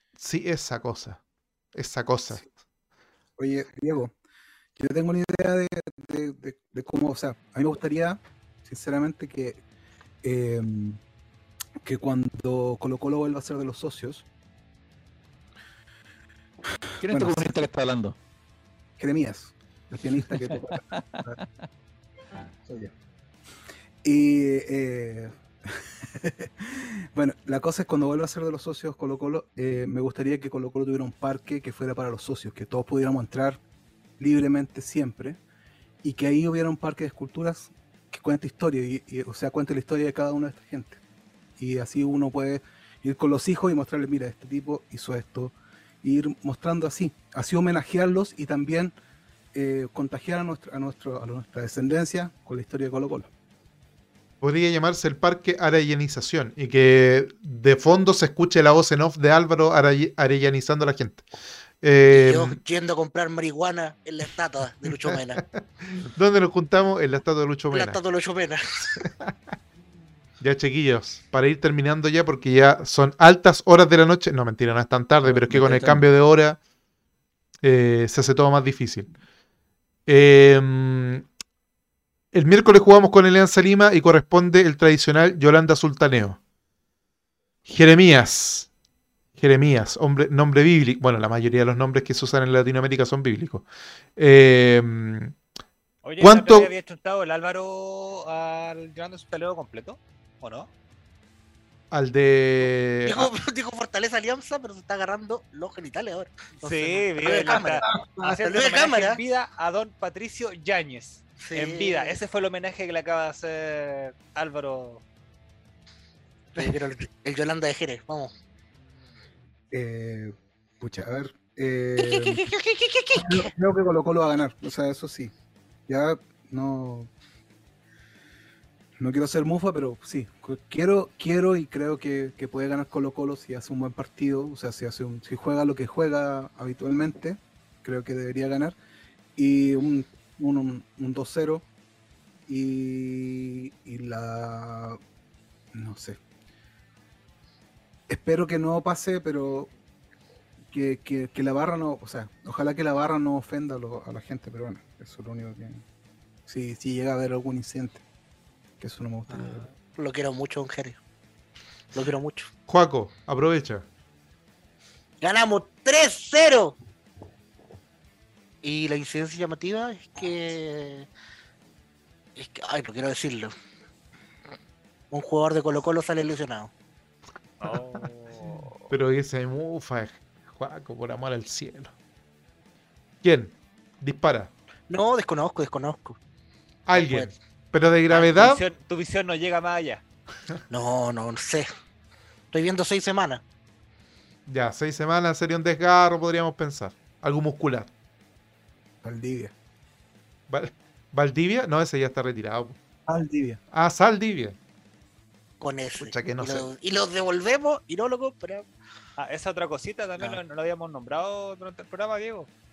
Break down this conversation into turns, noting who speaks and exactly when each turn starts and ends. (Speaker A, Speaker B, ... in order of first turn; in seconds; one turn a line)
Speaker A: 0.2-1.2
Speaker A: 1.8-2.5
Speaker B: 3.4-4.1
Speaker B: 4.8-9.6
Speaker B: 10.2-11.0
Speaker B: 11.8-14.3
Speaker B: 17.0-17.6
Speaker C: 17.0-18.2
Speaker B: 19.0-21.4
Speaker C: 20.4-21.4
Speaker B: 22.7-22.9
Speaker B: 24.0-33.6
Speaker B: 34.2-35.4
Speaker B: 36.0-41.0
Speaker B: 41.6-48.9
Speaker B: 49.5-53.3
Speaker A: 54.4-61.2
Speaker A: 61.8-62.6
Speaker D: 62.1-65.4
Speaker A: 66.0-68.0
Speaker D: 67.7-68.6
Speaker A: 70.4-76.6
Speaker C: 75.2-76.1
Speaker A: 77.6-79.1
Speaker A: 80.1-81.3
Speaker A: 82.3-86.4
Speaker A: 87.7-88.7
Speaker A: 89.4-93.7
Speaker A: 94.2-95.3
Speaker E: 96.0-100.7
Speaker A: 96.2-96.7
Speaker A: 101.9-103.3
Speaker D: 103.1-109.2
Speaker E: 106.6-115.0
Speaker D: 111.4-112.2
Speaker D: 116.5-118.3
Speaker B: 119.7-122.5
Speaker D: 122.1-123.5
Speaker B: 123.2-125.3
Speaker B: 125.9-127.1
Speaker B: 129.0-138.8
Speaker B: 139.4-141.7
Speaker B: 142.5-145.0
Speaker B: 145.7-146.2
Speaker B: 148.1-149.7
Speaker B: 150.7-155.8
Speaker B: 156.5-158.0
Speaker B: 158.8-159.7
Speaker D: 159.3-161.0
Speaker D: 161.9-162.5
Speaker A: 162.7-163.8
Speaker D: 165.2-166.8
Speaker D: 168.6-171.1
Speaker D: 172.4-173.5
Speaker D: 175.1-176.7
Speaker E: 177.6-178.8
Speaker A: 178.9-181.9
Speaker A: 183.2-184.5
Speaker D: 184.9-186.2
Speaker A: 186.9-188.6
Speaker D: 186.9-187.3
Speaker E: 188.1-190.0
Speaker D: 190.7-191.7
Speaker D: 192.5-193.4
Speaker A: 194.5-197.9
Speaker B: 199.0-199.5
Speaker A: 200.5-202.8
Speaker B: 203.1-203.6
Speaker A: 203.7-204.6
Speaker D: 205.6-208.7
Speaker A: 206.0-206.7
Speaker E: 209.2-212.5